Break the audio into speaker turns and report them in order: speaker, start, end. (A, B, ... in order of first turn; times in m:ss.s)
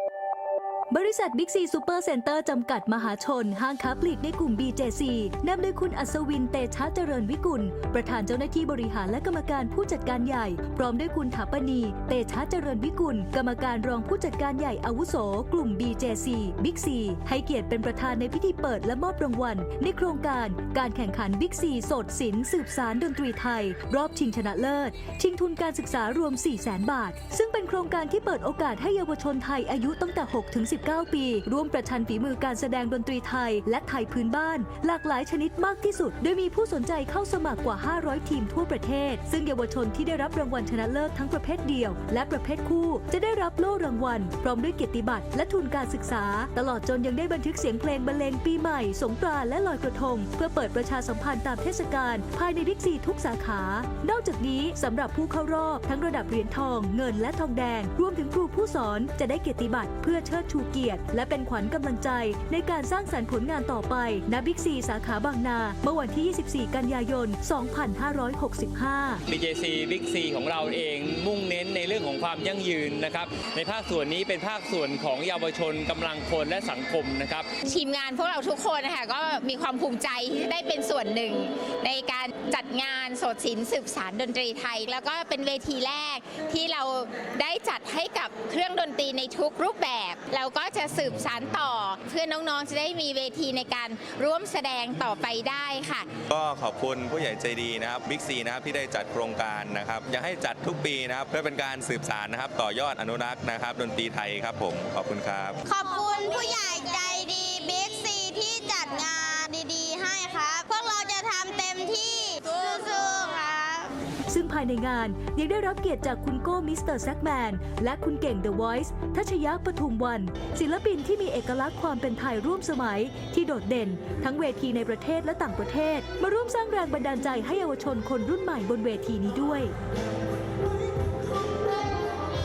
0:00.9-1:09.2 A
1:09.3-1:17.5 B
1:17.6-1:36.1 C
1:36.3-1:45.6 D
1:45.7-1:53.9 E
1:54.3-2:09.7 A